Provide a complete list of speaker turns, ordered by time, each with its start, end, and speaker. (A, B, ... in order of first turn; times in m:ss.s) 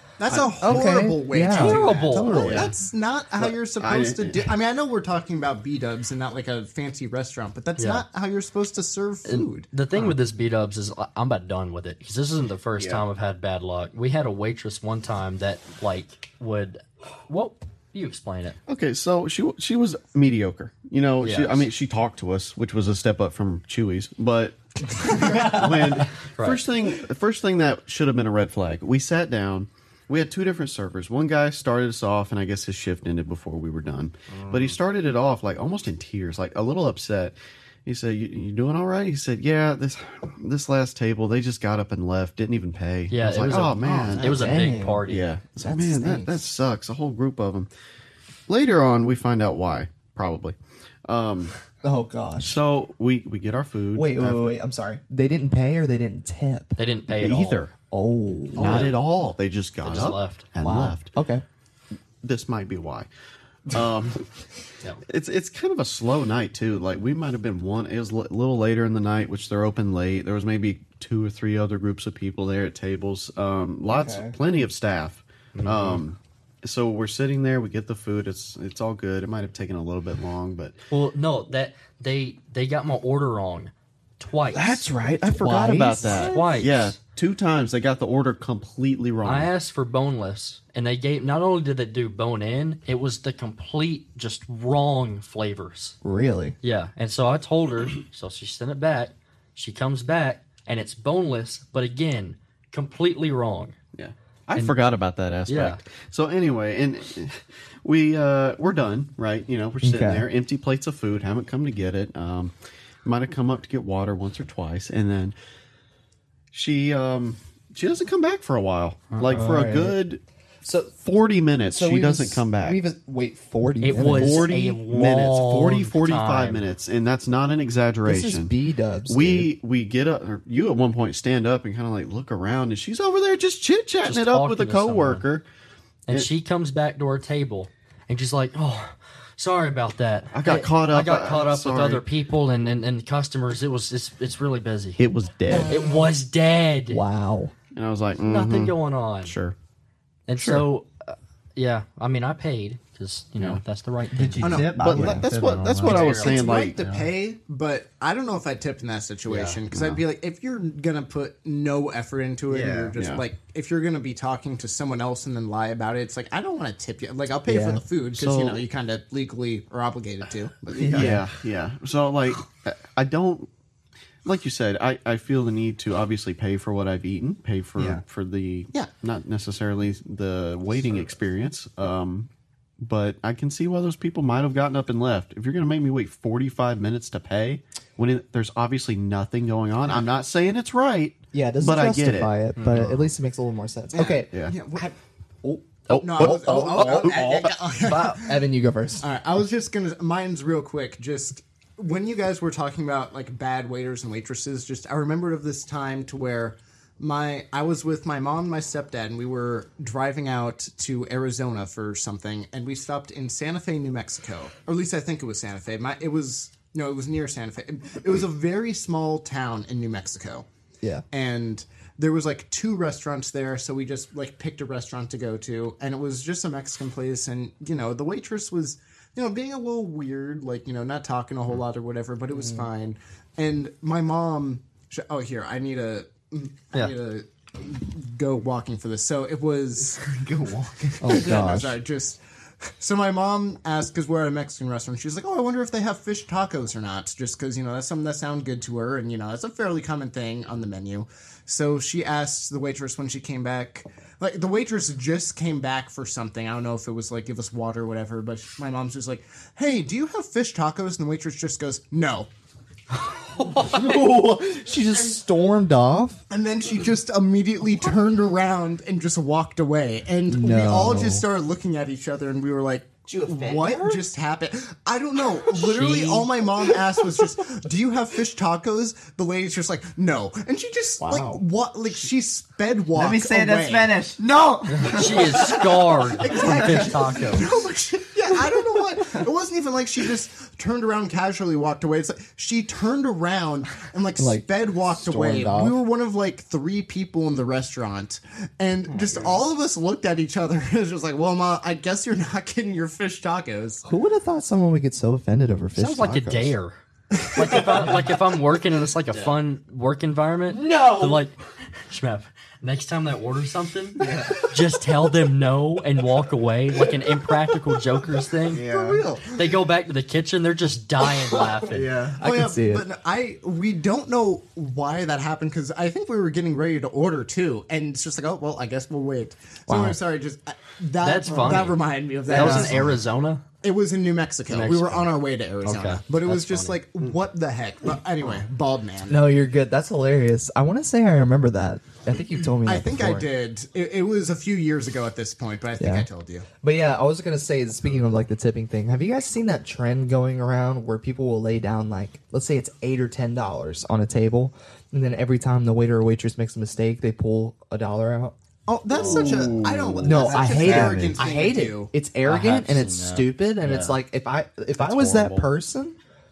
0:00.2-0:09.7 A
0:00.6-0:02.7 B
0:01.5-0:02.5 C
0:02.3-0:02.7 D
0:03.4-0:04.5 D
0:07.8-0:08.0 C
0:09.2-0:18.6 C
0:12.8-0:13.0 D
0:18.7-0:47.7 D
0:21.2-0:21.7 C
0:25.3-0:25.5 B
0:26.3-0:26.6 C
0:43.1-0:45.3 C
0:44.2-0:45.0 B
0:45.6-0:46.4 B
0:48.5-0:51.5 D
0:51.8-0:52.6 B
0:52.4-0:54.5 D
0:53.9-0:56.8 B
0:56.8-0:57.6 C
0:57.2-0:57.7 D
0:57.9-0:58.9 B
0:58.6-1:01.1 D
0:58.6-0:59.0 C
0:59.8-1:00.4 C
1:00.6-1:01.4 B
1:02.2-1:03.1 D
1:03.7-1:04.3 D
1:05.0-1:20.8 D
1:13.9-1:14.4 B
1:15.5-1:16.0 C
1:20.9-1:24.8 C
1:24.5-1:29.5 D
1:25.0-1:26.4 B
1:26.1-1:27.0 C
1:29.2-1:36.0 C
1:36.0-1:36.6 B
1:36.6-1:43.8 C
1:44.0-1:55.3 D
1:45.5-1:45.8 C
1:49.8-1:50.2 B
1:56.5-2:00.2 D
1:59.1-1:59.4 C
1:59.3-2:00.0 B
2:00.6-2:01.0 B
2:01.0-2:02.8 D
2:01.7-2:04.5 B
2:03.8-2:06.6 C
2:04.0-2:08.5 D
2:08.0-2:09.5 B
2:09.1-2:15.4 D
2:14.0-2:15.2 C
2:16.1-2:25.0 C
2:20.3-2:22.0 D
2:25.0-2:25.7 D
2:25.5-2:25.8 B
2:25.7-2:27.0 C
2:26.9-2:27.5 B
2:27.7-2:29.5 D
2:28.2-2:29.3 C
2:30.3-2:34.7 C
2:30.4-2:30.6 D
2:34.1-2:36.1 E
2:34.4-2:35.2 A
2:34.7-2:37.0 D
2:35.8-2:36.5 C
2:35.9-2:51.0 A
2:39.3-2:39.6 C
2:39.7-2:40.0 D
2:42.5-2:43.0 E
2:43.0-2:43.2 D
2:47.5-2:47.8 B
2:48.2-2:48.6 D
2:50.8-2:51.2 E
2:50.8-2:53.5 D
2:50.9-2:51.2 B
2:54.2-3:02.3 D
2:57.8-2:58.0 E
3:02.8-3:13.0 D
3:11.3-3:17.4 B
3:12.6-3:12.9 C
3:13.9-3:14.9 A
3:14.1-3:14.5 D
3:15.9-3:17.6 D
3:15.9-3:18.4 A
3:17.9-3:19.1 B
3:19.0-3:40.5 A
3:41.1-4:00.1 A
4:00.0-4:01.3 E
4:01.0-4:01.8 B
4:01.0-4:22.3 A
4:23.3-4:23.8 C
4:23.4-4:26.2 B
4:26.3-4:44.0 A
4:30.3-4:31.2 B
4:33.0-4:34.0 E
4:35.5-4:36.3 C
4:41.0-4:41.4 E
4:42.9-4:47.2 E
4:44.7-4:47.5 C
4:46.3-5:03.8 A
4:54.2-4:55.8 B
4:58.9-4:59.3 E
5:03.8-5:06.5 B
5:05.8-5:06.8 C
5:07.3-5:18.6 C
5:10.5-5:11.3 B
5:14.0-5:14.4 E
5:18.5-5:19.2 E
5:18.6-5:19.4 A
5:19.3-5:21.9 C
5:21.7-5:22.2 E
5:22.2-5:22.8 B
5:22.2-5:33.0 A
5:29.7-5:30.0 B
5:31.0-5:33.4 C
5:32.3-5:32.7 B
5:33.6-5:39.2 A
5:34.5-5:36.8 C
5:39.1-5:43.3 B
5:42.6-5:46.5 A
5:45.8-5:46.1 B
5:46.6-5:58.3 B
5:58.7-6:01.9 A
5:59.0-6:00.1 D
6:00.0-6:06.0 B
6:00.1-6:01.2 E
6:02.2-6:04.0 C
6:04.8-6:05.5 D